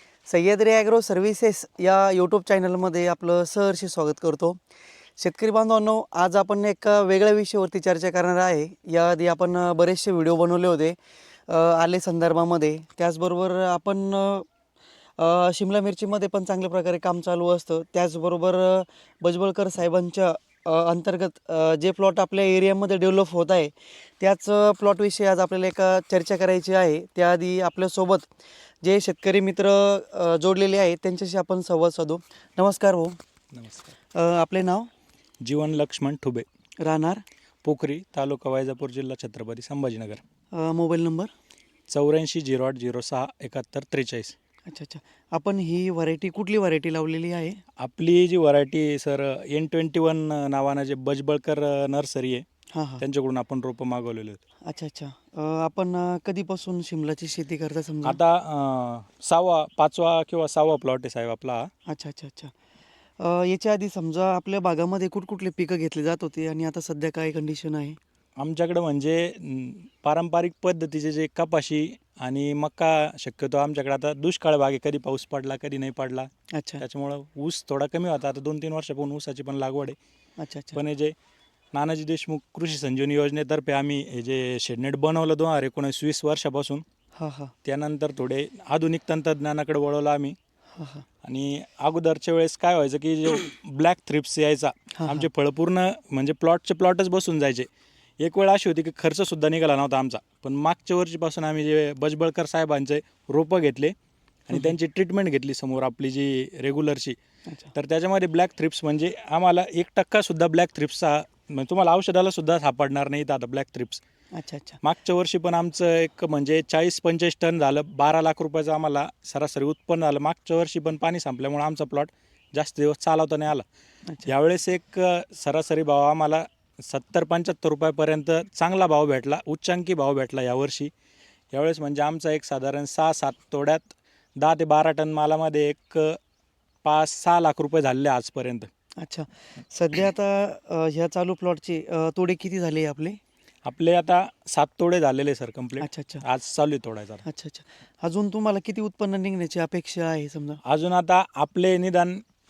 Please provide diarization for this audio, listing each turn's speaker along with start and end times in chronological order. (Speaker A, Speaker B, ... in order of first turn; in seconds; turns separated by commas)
Speaker A: 0.3-4.6, Speaker A: 5.2-14.5, Speaker A: 15.2-28.3, Speaker A: 28.8-33.2, Speaker B: 33.5-33.9, Speaker A: 34.1-34.9, Speaker B: 35.4-36.5, Speaker A: 36.8-37.2, Speaker B: 37.6-40.2, Speaker A: 40.5-41.3, Speaker B: 41.9-44.4, Speaker A: 44.7-47.6, Speaker B: 47.8-52.5, Speaker A: 52.7-53.0, Speaker B: 53.0-54.4, Speaker A: 54.7-58.2, Speaker B: 58.0-61.7, Speaker A: 61.9-62.5, Speaker A: 63.2-68.0, Speaker B: 68.4-76.3, Speaker A: 76.5-76.8, Speaker B: 76.8-80.0, Speaker A: 80.4-80.8, Speaker B: 80.8-81.1, Speaker B: 81.7-86.8, Speaker A: 87.2-87.5, Speaker B: 87.7-90.4, Speaker A: 90.7-91.0, Speaker B: 91.2-97.7, Speaker A: 94.9-95.3, Speaker B: 98.2-104.0, Speaker B: 104.5-107.2, Speaker A: 107.5-107.7, Speaker B: 107.8-114.0, Speaker A: 114.3-114.8, Speaker B: 114.8-123.7, Speaker B: 124.3-130.9, Speaker B: 131.5-136.2, Speaker B: 136.8-138.7, Speaker A: 139.0-143.2, Speaker B: 143.7-147.2, Speaker A: 145.8-146.2, Speaker A: 147.2-150.6, Speaker B: 150.7-152.2